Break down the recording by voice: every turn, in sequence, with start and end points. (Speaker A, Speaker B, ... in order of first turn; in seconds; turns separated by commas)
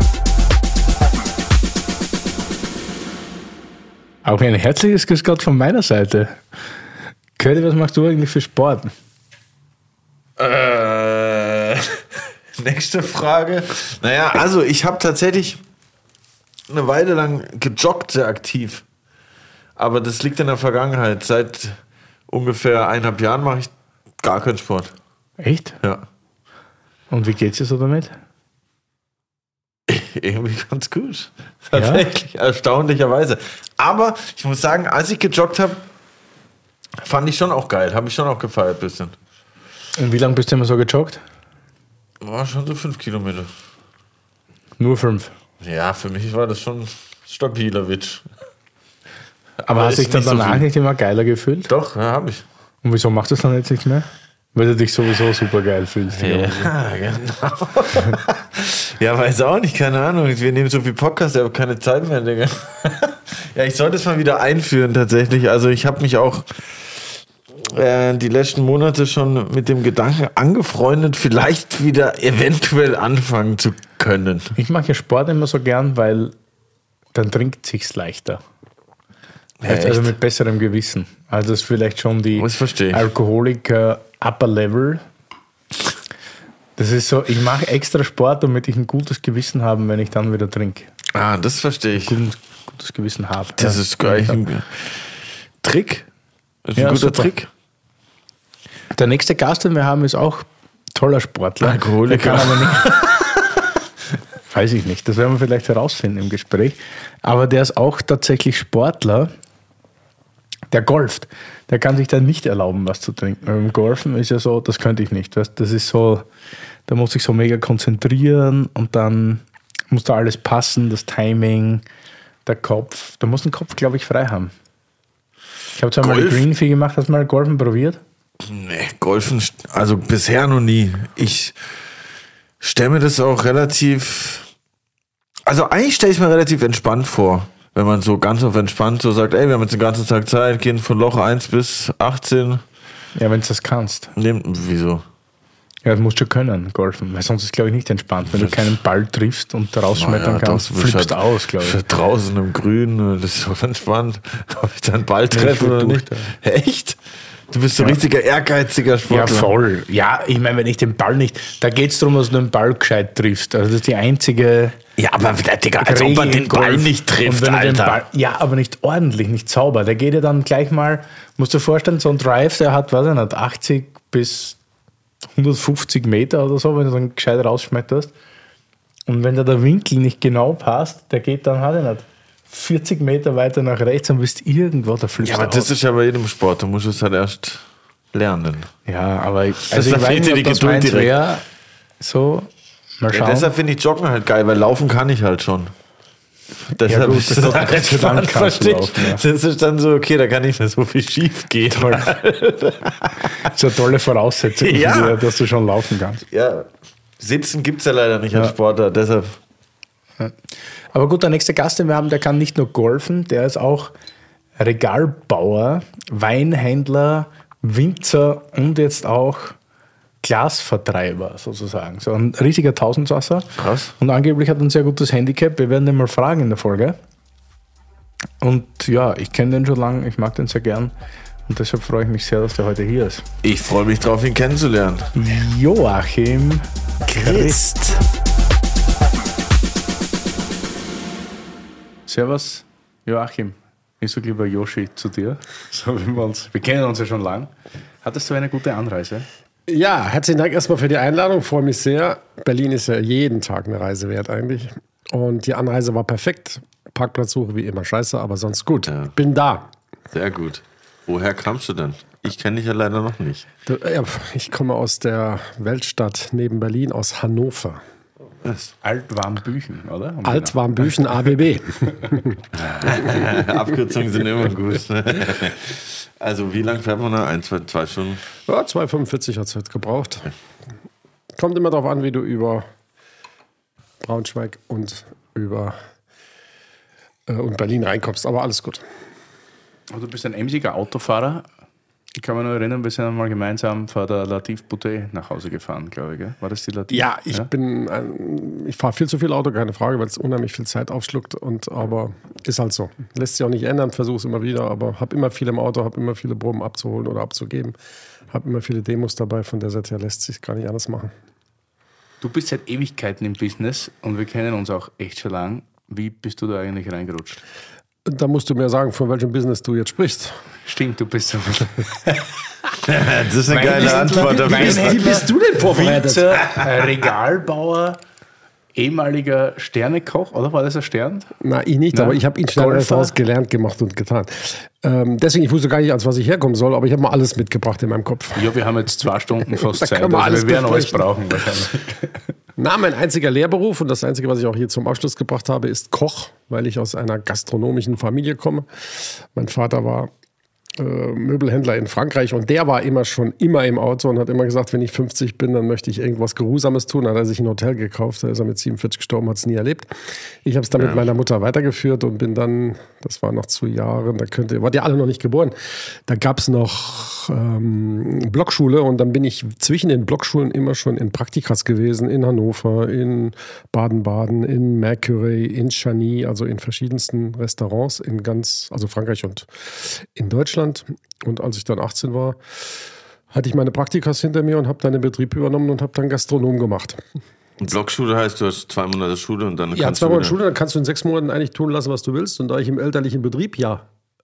Speaker A: 4.2-6.4, Speaker A: 7.4-8.9, Speaker B: 10.4-15.6, Speaker B: 16.7-18.8, Speaker B: 19.8-24.9, Speaker A: 25.4-25.8, Speaker A: 27.1-28.2, Speaker B: 29.9-35.8, Speaker A: 31.7-32.1, Speaker B: 37.0-39.1, Speaker A: 40.0-41.2, Speaker B: 42.2-43.5, Speaker A: 44.8-45.4, Speaker B: 45.6-48.3, Speaker A: 49.6-51.7, Speaker B: 49.7-50.7, Speaker B: 51.7-52.4, Speaker A: 52.8-56.7, Speaker B: 56.1-67.1, Speaker B: 67.6-74.6, Speaker A: 74.6-76.3, Speaker A: 77.1-78.4, Speaker B: 79.6-80.1, Speaker A: 79.6-85.0, Speaker B: 82.4-83.1, Speaker A: 86.8-90.9, Speaker B: 91.1-92.2, Speaker A: 92.0-94.4, Speaker B: 93.6-95.0, Speaker B: 95.6-96.0, Speaker B: 96.7-97.5, Speaker A: 96.8-97.3, Speaker A: 99.0-103.0, Speaker B: 101.6-103.4, Speaker A: 104.5-109.3, Speaker A: 110.7-116.3, Speaker A: 116.9-121.8, Speaker A: 122.5-124.5, Speaker A: 125.8-128.0, Speaker B: 126.0-126.5, Speaker B: 128.4-131.6, Speaker B: 132.6-134.5, Speaker B: 135.5-142.6, Speaker A: 143.2-144.1, Speaker B: 144.2-145.0, Speaker A: 145.8-151.8, Speaker B: 150.0-157.0, Speaker A: 155.3-156.1, Speaker B: 157.5-159.5, Speaker A: 159.1-164.8, Speaker B: 165.0-168.0, Speaker A: 165.8-174.6, Speaker A: 175.4-178.1, Speaker A: 179.1-185.7, Speaker B: 185.2-188.7, Speaker A: 188.9-191.4, Speaker B: 189.7-191.1, Speaker A: 192.0-193.5, Speaker B: 193.1-195.7, Speaker B: 196.7-203.5, Speaker A: 196.8-199.2, Speaker A: 203.4-206.2, Speaker B: 204.6-205.2, Speaker B: 206.3-206.7, Speaker B: 207.2-209.4, Speaker A: 210.2-213.9, Speaker A: 214.6-219.6, Speaker A: 220.2-227.0, Speaker B: 223.6-223.9, Speaker A: 228.4-230.9, Speaker A: 231.5-233.2, Speaker B: 233.4-235.1, Speaker A: 235.2-237.6, Speaker B: 237.1-237.8, Speaker A: 242.1-247.5, Speaker A: 248.0-249.3, Speaker C: 249.7-259.7, Speaker B: 258.9-259.1, Speaker B: 260.1-263.5, Speaker C: 263.7-267.8, Speaker B: 268.4-268.7, Speaker A: 268.8-271.0, Speaker C: 270.2-273.6, Speaker B: 272.6-278.2, Speaker C: 278.5-280.3, Speaker C: 281.4-282.7, Speaker C: 284.0-285.8, Speaker C: 287.3-288.8, Speaker A: 289.9-291.5, Speaker A: 292.1-297.5, Speaker C: 296.9-307.8, Speaker C: 308.3-311.1, Speaker A: 312.2-317.4, Speaker C: 318.1-320.4, Speaker A: 320.6-322.3, Speaker B: 322.9-325.2, Speaker A: 323.5-328.0, Speaker C: 323.7-326.4, Speaker A: 328.8-331.3, Speaker C: 331.4-338.5, Speaker A: 331.9-333.1, Speaker A: 338.4-342.2, Speaker C: 339.5-341.1, Speaker C: 342.6-350.1, Speaker C: 350.8-382.8, Speaker B: 360.8-361.1, Speaker C: 383.3-387.0, Speaker B: 387.6-390.4, Speaker C: 389.7-393.9